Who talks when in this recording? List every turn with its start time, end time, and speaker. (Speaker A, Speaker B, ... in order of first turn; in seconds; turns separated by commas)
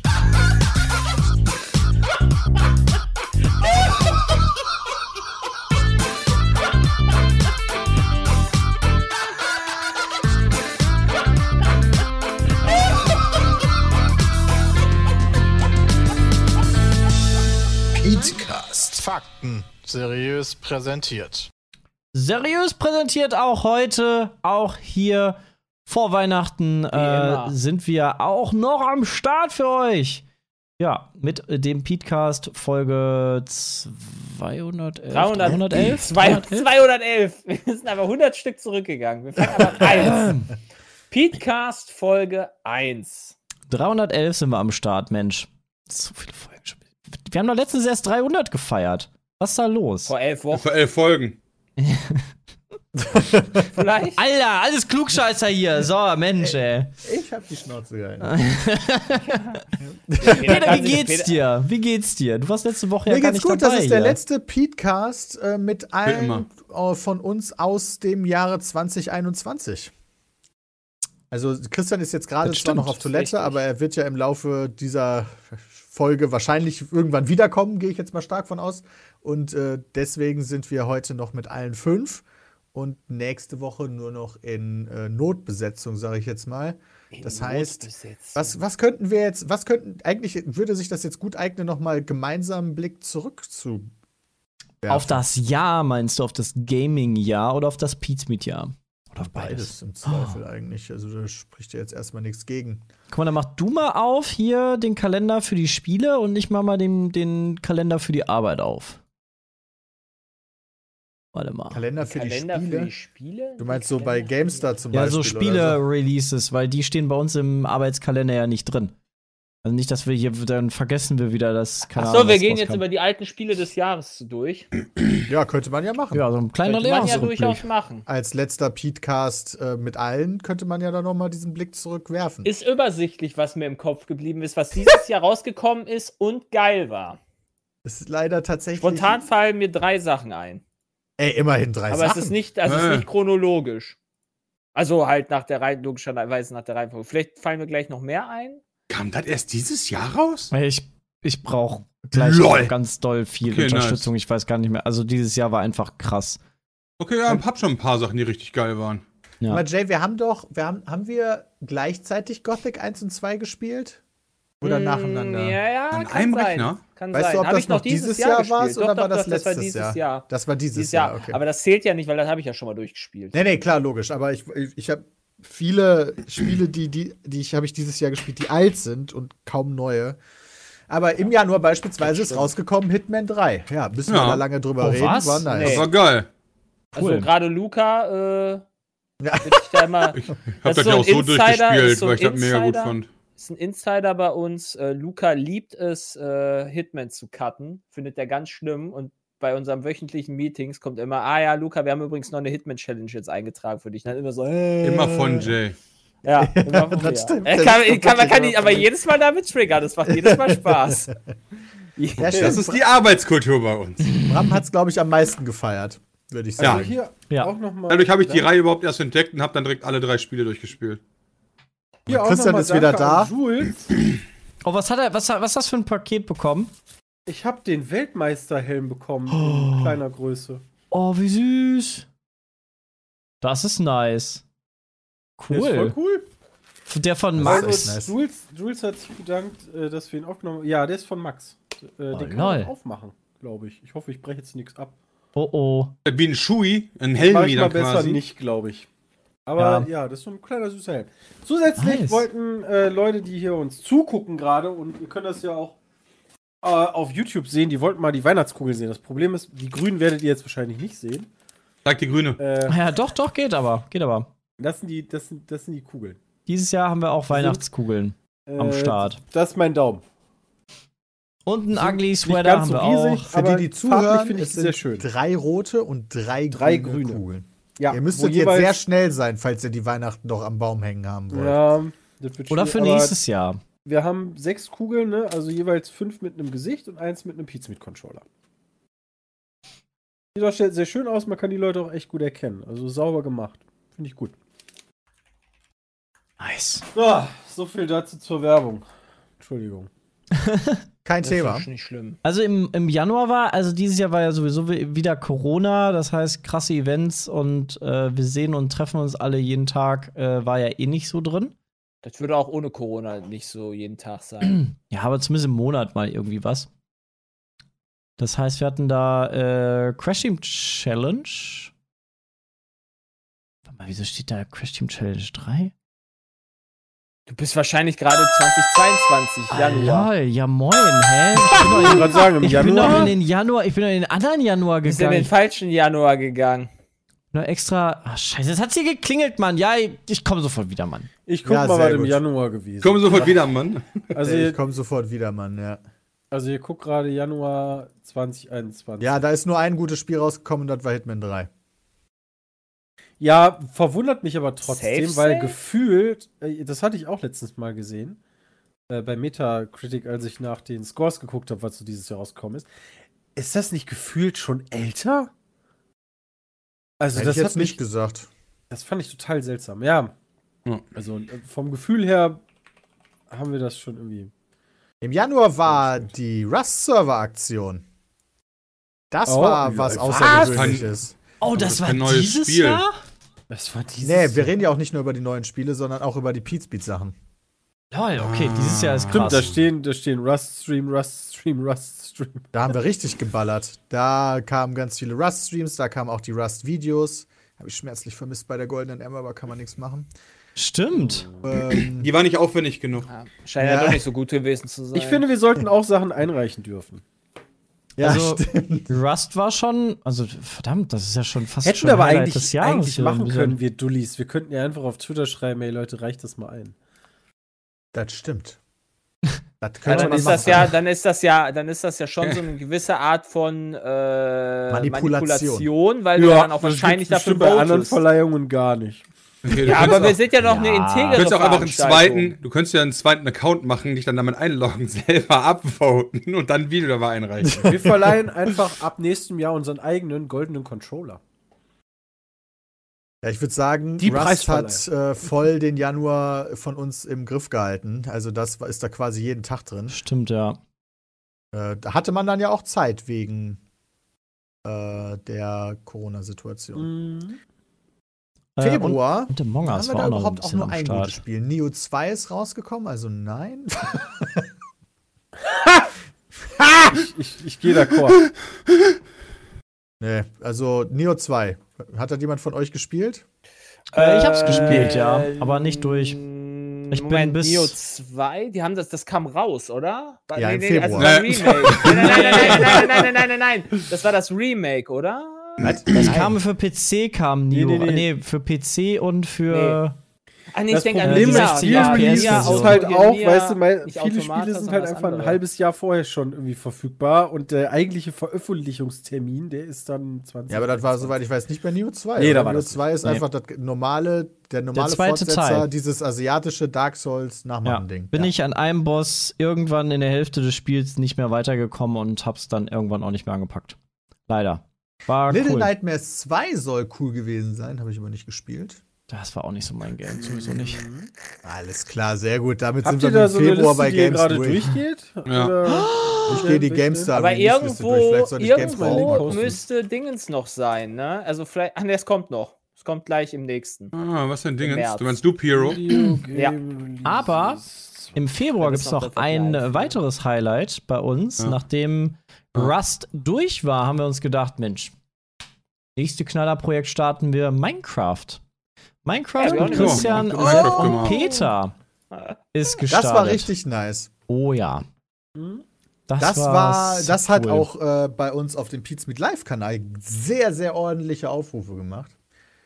Speaker A: 18.0-21.4, Speaker B: 22.1-30.2, Speaker C: 26.9-27.6, Speaker B: 30.8-36.7, Speaker C: 35.1-40.4, Speaker B: 39.8-40.5, Speaker C: 41.1-43.4, Speaker B: 43.7-50.1, Speaker C: 50.1-50.6, Speaker D: 50.5-51.4, Speaker B: 51.8-52.3, Speaker A: 53.0-53.8, Speaker C: 53.7-54.2, Speaker B: 54.2-56.9, Speaker A: 56.4-58.4, Speaker B: 58.2-59.6, Speaker A: 59.8-61.0, Speaker C: 60.2-61.4, Speaker B: 60.2-64.2, Speaker A: 63.0-69.9, Speaker D: 66.0-66.5, Speaker A: 71.3-93.9, Speaker B: 72.5-73.0, Speaker C: 73.1-73.6, Speaker C: 87.1-88.6, Speaker A: 94.8-95.2, Speaker B: 94.9-100.4, Speaker A: 99.2-102.8, Speaker B: 103.1-109.0, Speaker B: 111.3-111.8, Speaker A: 111.7-112.9, Speaker C: 112.1-114.7, Speaker A: 113.6-115.8, Speaker B: 114.9-118.9, Speaker B: 119.6-122.8, Speaker C: 122.0-124.7, Speaker A: 125.3-126.3, Speaker B: 126.1-127.6, Speaker C: 126.7-128.1, Speaker A: 128.1-132.5, Speaker C: 132.4-137.2, Speaker A: 137.8-139.2, Speaker C: 138.8-140.6, Speaker A: 141.2-142.4, Speaker C: 141.9-143.9, Speaker D: 142.6-143.1, Speaker C: 144.8-148.6, Speaker D: 148.9-150.5, Speaker B: 150.5-156.4, Speaker D: 152.1-152.7, Speaker D: 153.4-154.1, Speaker D: 157.0-159.0, Speaker A: 159.5-164.0, Speaker A: 164.6-165.6, Speaker C: 164.6-173.4, Speaker D: 165.9-166.8, Speaker A: 167.1-171.4, Speaker A: 173.3-180.2, Speaker A: 180.9-185.9, Speaker C: 182.0-182.5, Speaker D: 184.1-184.4, Speaker B: 184.8-185.6, Speaker C: 185.5-185.9, Speaker D: 185.6-186.3, Speaker B: 186.9-187.3, Speaker C: 186.9-188.6, Speaker A: 189.2-189.9, Speaker C: 189.4-204.7, Speaker D: 190.1-193.1, Speaker A: 204.4-205.6, Speaker D: 204.8-205.8, Speaker C: 206.2-211.1, Speaker A: 206.4-208.9, Speaker A: 210.1-211.2, Speaker C: 212.0-212.5, Speaker A: 212.2-212.8, Speaker D: 212.2-214.2, Speaker B: 214.1-214.5, Speaker A: 214.2-217.0, Speaker E: 216.6-218.5, Speaker D: 216.6-216.8, Speaker D: 217.9-221.0, Speaker A: 222.1-223.3, Speaker E: 222.1-223.9, Speaker B: 224.6-226.7, Speaker E: 227.3-230.6, Speaker B: 229.3-230.0, Speaker B: 230.9-232.1, Speaker B: 233.4-234.4, Speaker B: 235.4-236.0, Speaker A: 235.7-236.2, Speaker B: 236.9-238.0, Speaker A: 237.4-238.1, Speaker E: 237.4-244.9, Speaker B: 242.1-242.7, Speaker B: 245.3-245.9, Speaker D: 246.1-248.2, Speaker E: 247.2-248.9, Speaker E: 249.5-255.8, Speaker B: 249.6-249.9, Speaker B: 251.8-252.3, Speaker E: 256.6-261.3, Speaker D: 261.9-262.4, Speaker E: 262.4-262.8, Speaker B: 262.7-264.3, Speaker E: 264.6-266.2, Speaker B: 266.5-269.2, Speaker E: 267.3-267.6, Speaker E: 268.5-270.0, Speaker B: 271.5-273.3, Speaker E: 271.7-275.1, Speaker A: 273.3-281.6, Speaker E: 276.5-277.2, Speaker E: 277.8-278.8, Speaker E: 281.3-283.2, Speaker B: 282.5-283.6, Speaker E: 283.9-288.2, Speaker E: 290.4-294.4, Speaker B: 296.4-296.8, Speaker E: 296.9-298.9, Speaker E: 299.4-299.9, Speaker B: 300.3-300.9, Speaker A: 301.1-301.7, Speaker C: 301.2-302.2, Speaker B: 302.2-311.5, Speaker C: 312.0-314.6, Speaker B: 314.4-316.7, Speaker B: 318.2-321.7, Speaker B: 323.7-325.7, Speaker C: 327.3-330.1, Speaker B: 329.5-335.3, Speaker E: 331.6-333.2, Speaker C: 334.9-336.7, Speaker B: 337.3-341.1, Speaker E: 341.2-343.3, Speaker A: 341.4-342.2, Speaker D: 342.8-344.1, Speaker E: 344.1-344.6, Speaker A: 344.2-345.8, Speaker E: 346.3-349.1, Speaker A: 349.0-351.5, Speaker E: 353.2-358.2, Speaker C: 354.6-355.6, Speaker E: 358.9-362.7, Speaker E: 363.4-365.3, Speaker E: 367.0-367.8, Speaker A: 367.1-368.3, Speaker E: 368.7-370.1, Speaker E: 370.9-372.4, Speaker E: 373.3-374.3, Speaker A: 375.0-377.8, Speaker E: 375.7-376.1, Speaker A: 379.1-381.1, Speaker E: 379.3-380.8, Speaker D: 380.3-380.9, Speaker B: 381.4-382.9, Speaker D: 381.5-382.8, Speaker E: 383.5-384.5, Speaker A: 384.0-387.1, Speaker B: 387.9-389.5, Speaker D: 388.2-389.6, Speaker E: 389.1-392.5, Speaker A: 392.5-400.1, Speaker B: 400.6-401.2, Speaker E: 400.9-401.6, Speaker A: 401.4-402.1, Speaker D: 402.0-403.1, Speaker C: 403.1-405.3, Speaker A: 403.6-404.1, Speaker E: 404.9-407.0, Speaker A: 408.0-408.9, Speaker B: 408.0-413.6, Speaker E: 411.6-416.8, Speaker A: 417.9-418.6, Speaker A: 419.6-420.8, Speaker C: 419.8-428.0, Speaker B: 419.9-420.7, Speaker A: 424.7-425.7, Speaker E: 426.2-429.1, Speaker D: 429.4-430.2, Speaker C: 429.6-432.4, Speaker B: 430.4-431.2, Speaker D: 431.1-437.7, Speaker A: 437.4-438.2, Speaker E: 437.6-441.2, Speaker A: 443.2-450.0, Speaker E: 444.0-444.9, Speaker B: 449.9-450.6, Speaker A: 451.5-453.6, Speaker A: 454.6-456.9, Speaker E: 456.8-457.4, Speaker B: 458.6-461.2, Speaker A: 458.6-464.5, Speaker E: 465.4-465.9, Speaker E: 466.6-468.2, Speaker A: 470.0-473.2, Speaker C: 473.9-485.7, Speaker B: 473.9-476.2, Speaker B: 476.9-477.8, Speaker A: 480.3-481.9, Speaker D: 480.9-483.1, Speaker A: 485.6-486.4, Speaker B: 485.9-490.0, Speaker E: 487.5-488.1, Speaker C: 489.5-489.8, Speaker C: 490.5-495.4, Speaker E: 490.7-501.1, Speaker B: 491.0-492.8, Speaker A: 500.5-508.3, Speaker E: 502.2-502.8, Speaker B: 504.7-505.7, Speaker B: 507.6-513.8, Speaker B: 514.3-515.7, Speaker A: 515.3-518.8, Speaker B: 519.1-520.8, Speaker E: 520.2-521.1, Speaker A: 521.4-524.8, Speaker E: 522.8-527.1, Speaker D: 525.3-525.5, Speaker B: 525.6-526.4, Speaker A: 526.3-529.6, Speaker C: 527.1-533.9, Speaker E: 528.5-529.6, Speaker D: 533.9-535.8, Speaker C: 534.6-535.2, Speaker E: 535.5-538.1, Speaker B: 535.9-536.2, Speaker C: 536.3-536.6, Speaker B: 537.0-537.6, Speaker B: 538.1-544.9, Speaker C: 538.6-540.0, Speaker B: 546.0-548.4, Speaker B: 549.0-551.8, Speaker C: 549.4-551.2, Speaker D: 549.6-551.2, Speaker E: 550.8-551.1, Speaker B: 552.5-553.5, Speaker A: 552.9-554.1, Speaker B: 554.3-554.8, Speaker E: 555.4-555.6, Speaker B: 556.1-557.7, Speaker A: 556.2-562.1